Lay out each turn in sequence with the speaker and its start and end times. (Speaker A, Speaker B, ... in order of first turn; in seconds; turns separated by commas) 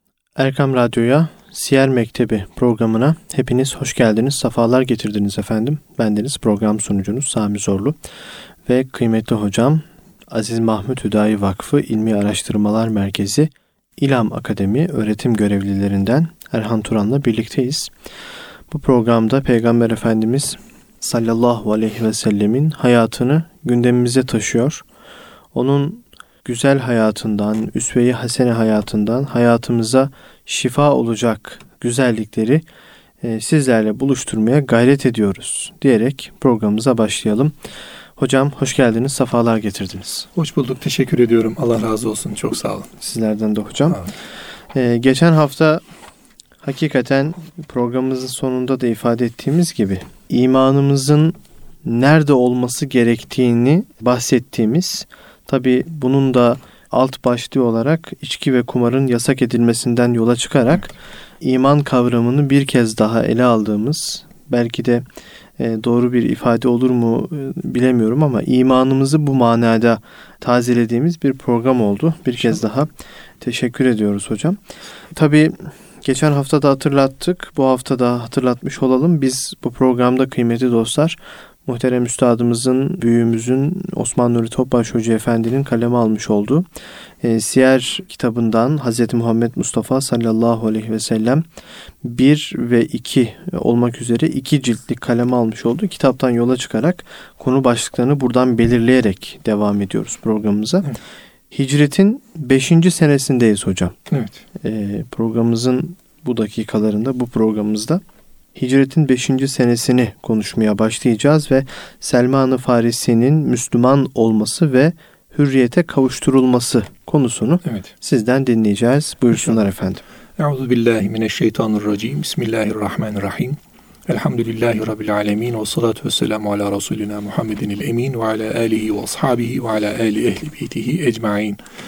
Speaker A: 0.4-8.0, Speaker A: 8.7-17.9, Speaker A: 18.7-24.8, Speaker A: 25.5-32.6, Speaker A: 33.2-37.5, Speaker A: 38.2-40.3, Speaker B: 40.3-42.9, Speaker A: 43.0-44.1, Speaker A: 44.7-45.8, Speaker A: 46.6-65.0, Speaker A: 65.6-74.6, Speaker A: 75.1-86.7, Speaker A: 87.2-91.4, Speaker A: 92.0-101.0, Speaker A: 101.5-104.0, Speaker B: 104.1-104.4, Speaker A: 104.5-108.0, Speaker A: 108.5-120.0, Speaker B: 120.4-131.6